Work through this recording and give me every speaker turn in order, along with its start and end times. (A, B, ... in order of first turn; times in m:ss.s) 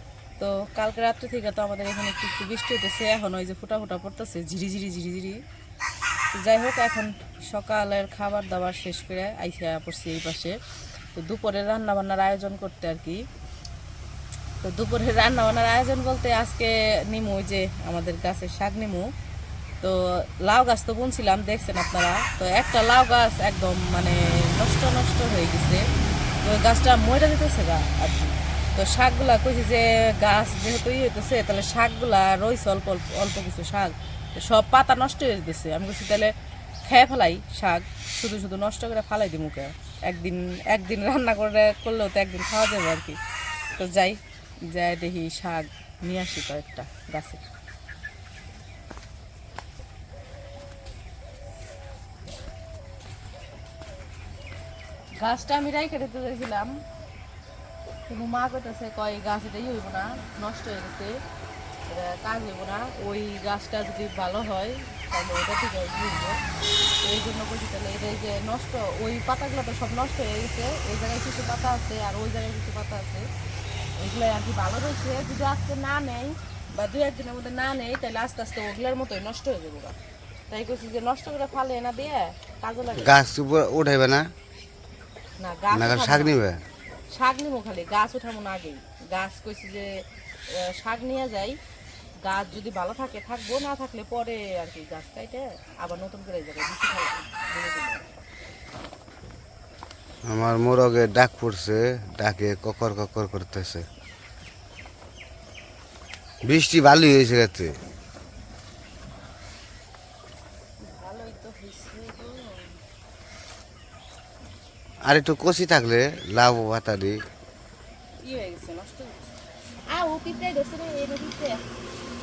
0:00.4-0:05.4 A
0:06.4-0:10.6 A
0:11.2-0:13.2 A
0:14.6-0:19.1 A
0:19.8-0:25.8 A
0:26.4-0:36.3 A
0:36.8-0:43.2 A
0:43.8-0:44.2 A
0:44.7-0:47.4 A
0:55.2-0:56.8 A
0:58.1-1:01.2 A
1:01.9-1:06.4 A
1:07.0-1:13.3 A
1:14.0-1:19.9 A
1:20.5-1:23.2 A
1:23.0-1:24.3 B
1:25.4-1:26.3 A
1:25.7-1:26.6 B
1:27.1-1:31.6 A
1:32.2-1:38.0 A
1:40.2-1:43.8 B
1:46.4-1:47.8 B
1:50.8-1:52.8 A
1:55.0-1:57.2 B
1:58.2-1:59.3 A
1:59.9-2:01.6 A